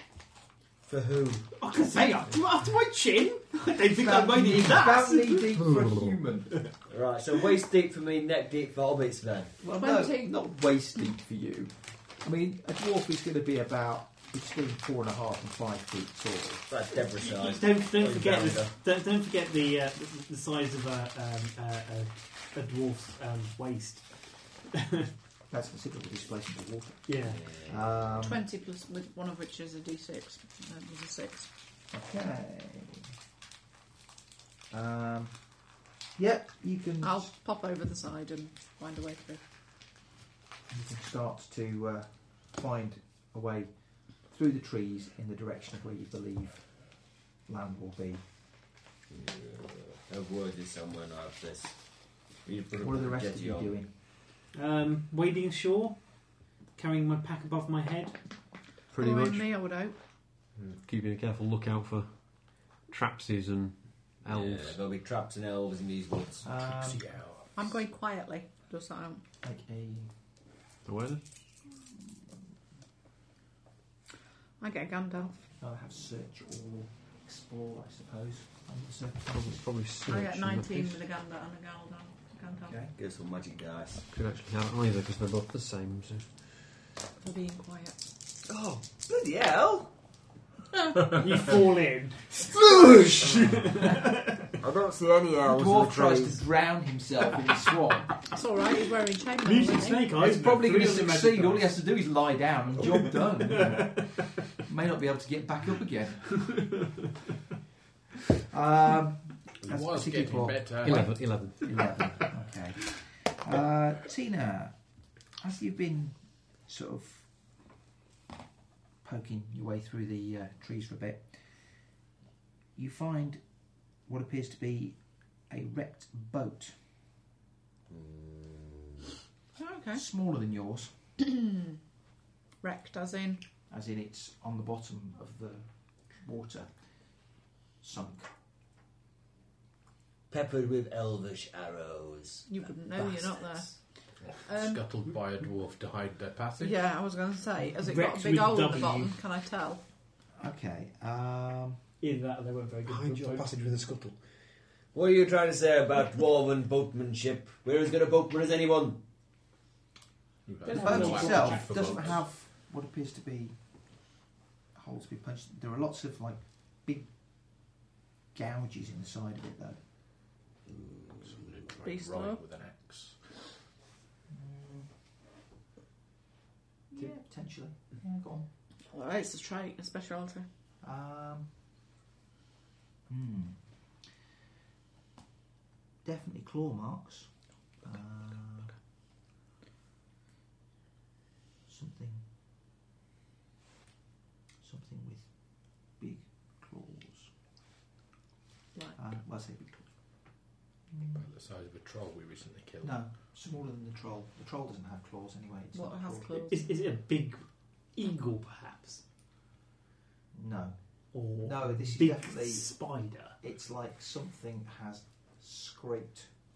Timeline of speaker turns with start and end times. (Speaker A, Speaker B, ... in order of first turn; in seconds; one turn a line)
Speaker A: 0.9-2.3
Speaker B: 1.6-5.5
Speaker A: 4.0-6.6
Speaker C: 5.5-6.2
Speaker D: 6.9-9.6
Speaker A: 9.6-16.6
Speaker E: 9.8-10.4
Speaker D: 16.7-18.7
Speaker B: 17.0-25.1
Speaker A: 25.5-28.4
Speaker B: 27.1-27.4
Speaker D: 27.3-28.2
Speaker E: 28.2-31.5
Speaker A: 31.9-33.1
Speaker A: 34.7-37.3
Speaker E: 37.0-39.4
Speaker A: 40.7-48.3
Speaker D: 49.1-53.8
Speaker A: 52.8-53.9
Speaker B: 54.5-58.2
Speaker C: 58.9-59.5
Speaker E: 59.0-60.0
Speaker C: 60.7-62.1
Speaker C: 62.9-64.8
Speaker D: 64.3-66.5
Speaker A: 66.4-67.0
Speaker F: 66.7-67.5
Speaker E: 67.5-69.2
Speaker A: 69.4-70.1
Speaker C: 70.8-71.2
Speaker E: 74.6-75.5
Speaker A: 75.6-79.6
Speaker C: 79.3-81.0
Speaker E: 80.1-82.8
Speaker A: 82.5-82.9
Speaker D: 82.9-84.1
Speaker C: 84.1-86.5
Speaker E: 87.2-88.0
Speaker D: 88.5-89.9
Speaker E: 90.7-91.1
Speaker B: 91.0-94.6
Speaker A: 92.7-93.7
Speaker D: 94.6-96.4
Speaker A: 95.5-98.1
Speaker E: 98.3-100.1
Speaker B: 99.4-101.8
Speaker A: 100.2-106.5
Speaker B: 103.1-104.2
Speaker B: 106.4-106.9
Speaker A: 108.5-114.8
Speaker F: 109.6-111.2
Speaker C: 110.8-112.1
Speaker A: 115.4-117.3
Speaker A: 119.0-121.5
Speaker A: 122.8-123.4
Speaker A: 124.0-126.8
Speaker D: 127.9-129.0
Speaker E: 129.6-130.0
Speaker A: 129.9-131.0
Speaker E: 132.6-133.5
Speaker A: 133.7-136.7
Speaker A: 137.8-138.3
Speaker D: 140.3-142.5
Speaker E: 142.5-143.8
Speaker A: 143.0-143.5
Speaker F: 144.2-146.8
Speaker E: 144.4-144.8
Speaker E: 146.6-149.8
Speaker B: 147.8-149.1
Speaker A: 150.4-151.8
Speaker B: 152.0-153.7
Speaker C: 152.9-154.2
Speaker D: 154.9-159.0
Speaker F: 160.5-162.2
Speaker B: 160.7-162.2
Speaker A: 160.7-163.6
Speaker A: 164.7-167.1
Speaker A: 168.3-169.8
Speaker D: 170.8-171.3
Speaker F: 171.2-173.3
Speaker E: 171.8-172.4
Speaker A: 174.3-174.9
Speaker A: 176.9-178.5
Speaker E: 178.9-180.5
Speaker A: 180.8-181.5
Speaker A: 183.1-183.6
Speaker A: 186.0-188.7
Speaker A: 191.7-192.3
Speaker A: 194.6-195.3
Speaker A: 196.0-197.3
Speaker A: 199.0-200.0
Speaker A: 200.9-201.2
Speaker F: 201.1-203.1
Speaker A: 202.8-206.5
Speaker E: 205.7-206.7
Speaker B: 206.5-209.0
Speaker A: 210.3-210.8
Speaker B: 211.1-213.4
Speaker A: 211.4-212.7
Speaker A: 213.4-216.3